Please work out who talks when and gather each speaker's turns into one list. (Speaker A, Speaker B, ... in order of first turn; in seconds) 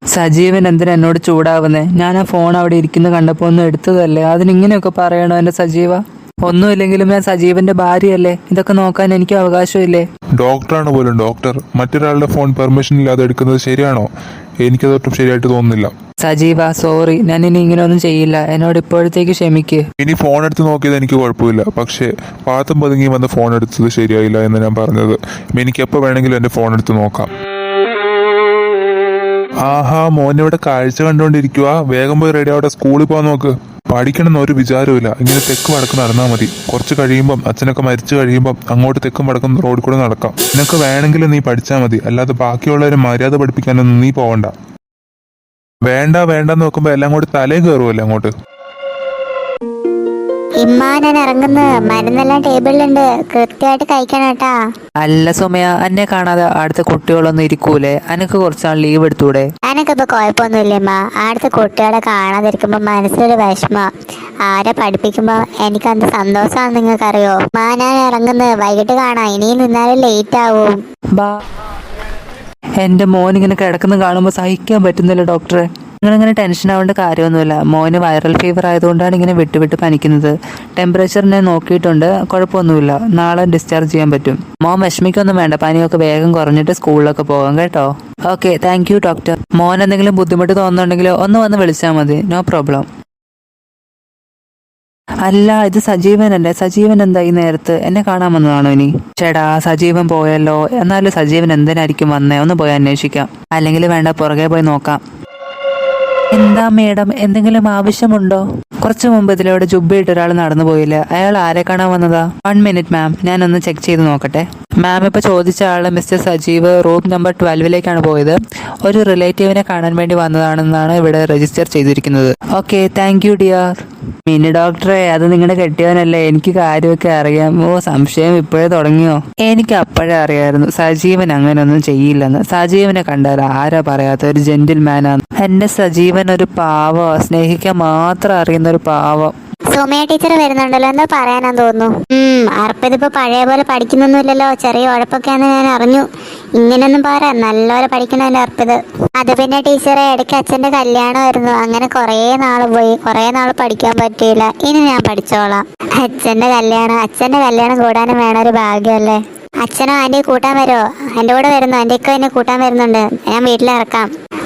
Speaker A: 0.1-10.1, 16.2-19.8, 55.0-59.5, 72.8-92.9, 95.2-105.0, 106.3-139.3
Speaker B: 10.4-14.1, 14.6-15.9, 20.0-27.3, 29.6-44.5, 45.9-48.3
Speaker C: 50.6-54.5, 59.6-63.9, 64.5-70.8, 139.7-146.1, 146.6-164.1